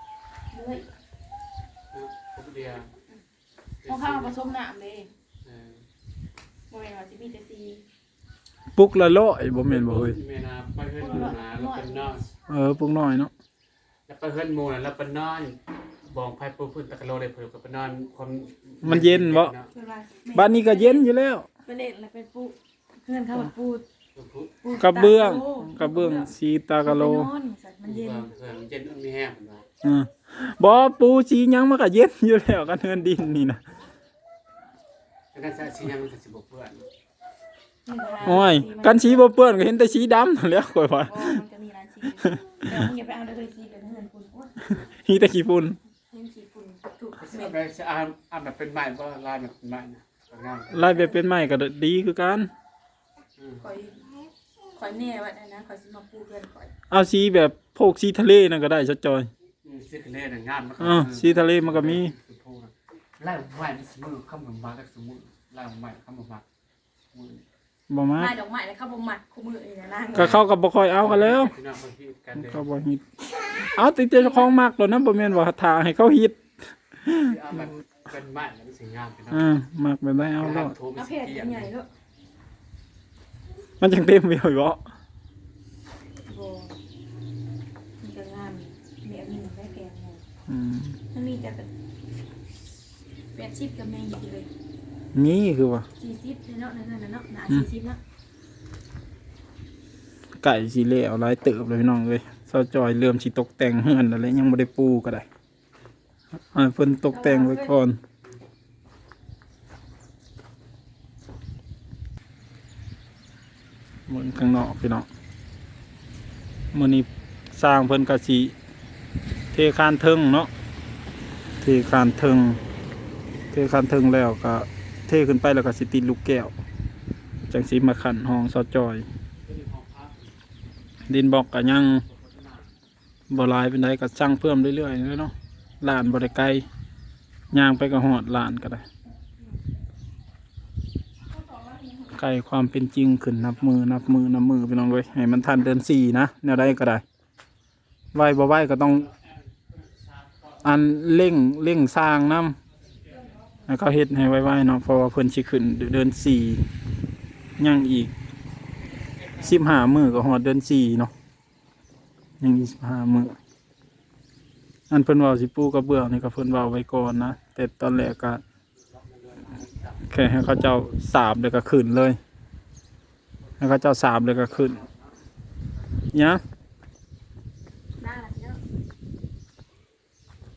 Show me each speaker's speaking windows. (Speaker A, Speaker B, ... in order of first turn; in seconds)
Speaker A: 0.5-0.9, 3.9-5.1, 6.7-7.8, 11.0-12.2, 19.7-21.1, 21.6-23.8, 24.6-26.3, 26.8-28.3, 37.9-39.2, 41.0-44.5, 46.0-47.5, 50.8-51.2, 53.6-54.1, 54.7-56.7, 68.2-70.3, 74.1-74.5, 80.9-81.9, 86.2-86.8, 88.0-90.2, 91.1-91.7, 93.3-94.5, 96.0-98.0, 107.1-107.7, 141.3-142.2, 178.0-178.6
Speaker B: 1.9-2.9, 3.8-4.4, 5.4-5.8, 9.7-12.2, 14.1-19.7, 24.1-24.6, 27.8-29.6, 35.3-36.9, 47.2-50.9, 53.4-53.6, 59.6-66.4, 67.1-67.4, 70.1-70.5, 71.0-72.7, 77.1-79.5, 80.4-81.7, 129.4-130.3, 132.0-132.7, 148.8-150.7, 168.9-170.2, 174.3-175.1
Speaker C: 8.8-10.2, 12.5-13.3, 18.8-19.5, 20.3-21.4, 24.8-27.3, 29.8-33.6, 38.2-41.4, 42.2-42.8, 44.7-45.8, 50.7-52.5, 56.9-59.3, 60.8-62.1, 67.9-68.3, 70.1-71.5, 72.4-76.4, 77.0-77.3, 79.3-80.7, 83.8-84.8, 90.5-91.0, 95.1-95.9, 100.4-105.2, 106.5-108.0, 114.1-115.1, 116.7-118.5, 119.5-120.5, 121.6-122.6, 123.5-126.5, 127.5-129.1, 131.1-132.0, 133.3-136.7, 137.5-138.8, 142.1-147.0, 148.1-149.1, 150.6-152.6, 153.7-156.6, 157.6-158.1, 159.3-161.1, 162.4-163.3, 164.9-168.4, 170.1-172.2, 173.6-174.8, 176.1-176.4